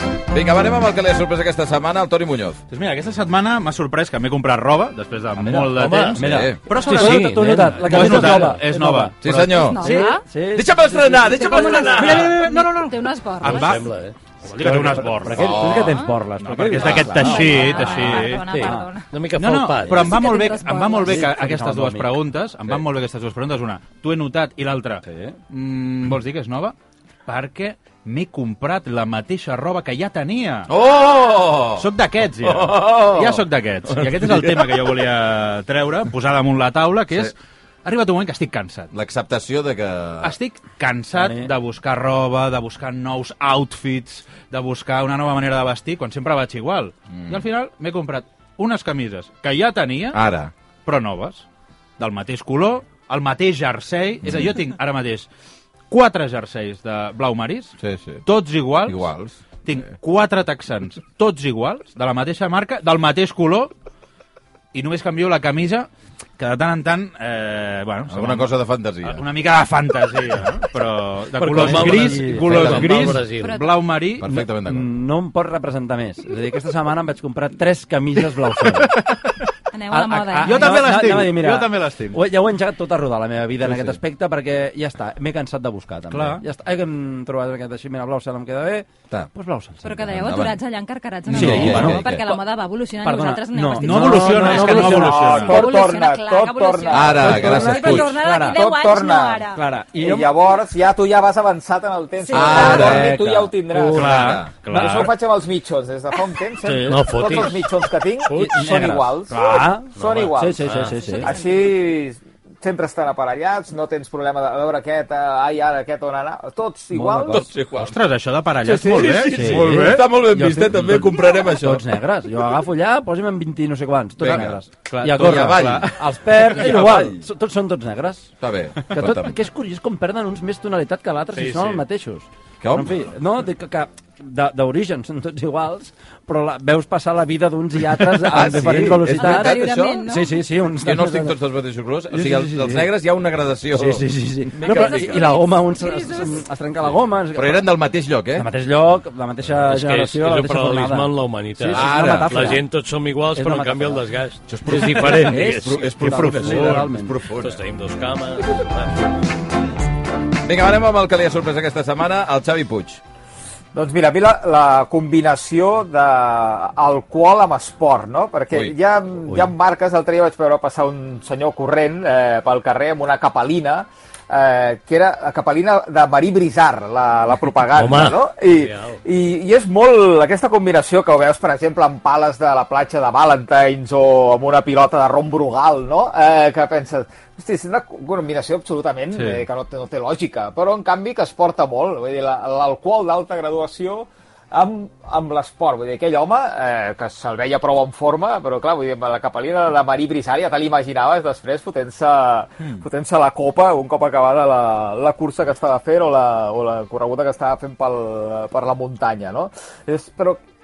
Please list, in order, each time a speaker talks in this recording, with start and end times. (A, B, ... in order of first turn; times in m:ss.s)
0:00.3-0:02.6 A
0:02.7-0:09.8 B
0:05.4-0:11.4 C
0:05.7-0:08.5 D
0:06.2-0:06.6 A
0:09.2-0:10.0 A
0:09.5-0:10.2 E
0:10.5-0:12.4 A
0:11.1-0:13.8 E
0:11.9-0:13.9 B
0:13.4-0:14.2 D
0:14.4-0:15.5 B
0:14.6-0:18.9 C
0:15.4-0:16.0 A
0:15.7-0:16.2 E
0:16.4-0:18.5 B
0:16.8-0:19.1 E
0:18.5-0:20.2 D
0:19.4-0:26.7 B
0:20.0-0:21.2 E
0:21.0-0:22.2 C
0:25.0-0:25.4 C
0:27.3-0:30.7 B
0:30.7-0:34.9 A
0:31.8-0:38.9 B
0:38.9-0:40.4 A
0:40.2-0:50.2 B
0:41.1-0:41.5 C
0:47.1-0:47.4 A
0:50.1-0:50.5 A
0:50.8-0:51.4 B
0:52.0-0:55.3 B
0:54.2-0:54.5 A
0:55.9-0:59.0 B
0:57.8-0:58.2 A
0:58.8-0:59.4 A
0:59.6-1:03.7 B
1:04.7-1:08.5 B
1:08.1-1:09.2 A
1:09.0-1:14.4 B
1:11.4-1:13.6 D
1:11.5-1:13.1 C
1:12.5-1:13.0 A
1:13.3-1:13.9 E
1:14.2-1:14.9 A
1:14.6-1:19.0 C
1:18.8-1:19.4 B
1:19.7-1:20.9 E
1:19.9-1:30.1 C
1:20.4-1:22.2 B
1:23.6-1:24.0 A
1:26.1-1:26.4 B
1:29.8-1:39.6 E
1:30.0-1:30.6 A
1:31.3-1:32.0 C
1:31.3-1:32.3 A
1:33.0-1:35.6 C
1:33.8-1:35.6 B
1:34.5-1:37.5 F
1:36.9-1:38.1 A
1:37.2-1:38.6 C
1:38.4-1:50.7 F
1:39.5-1:40.3 C
1:42.2-1:42.9 E
1:42.3-1:43.2 A
1:42.5-1:44.1 C
1:43.9-1:45.1 B
1:43.9-1:44.5 A
1:44.6-1:45.1 C
1:46.6-1:47.0 C
1:46.8-1:48.8 D
1:48.3-1:51.3 C
1:50.0-1:51.0 D
1:51.0-1:51.5 E
1:51.2-1:57.4 F
1:56.9-1:57.5 C
1:57.2-1:58.0 A
1:57.7-2:00.1 B
1:58.6-2:01.9 A
1:59.3-2:08.3 C
2:04.2-2:07.2 A
2:04.3-2:05.9 B
2:08.4-2:09.4 A
2:08.8-2:21.4 C
2:11.3-2:11.8 B
2:12.6-2:13.1 A
2:18.1-2:20.0 A
2:19.2-2:20.4 E
2:20.8-2:25.3 A
2:22.1-2:22.9 C
2:23.7-2:27.7 C
2:24.6-2:26.4 E
2:27.3-2:28.5 A
2:28.3-2:32.6 C
2:29.6-2:36.3 D
2:31.7-2:32.5 A
2:33.3-2:34.0 C
2:34.5-2:37.6 A
2:35.0-2:37.2 C
2:37.4-2:38.9 D
2:40.4-2:43.0 A
2:43.7-3:30.4 F
2:48.5-2:48.8 A
2:57.7-2:59.0 D
3:09.1-3:09.4 B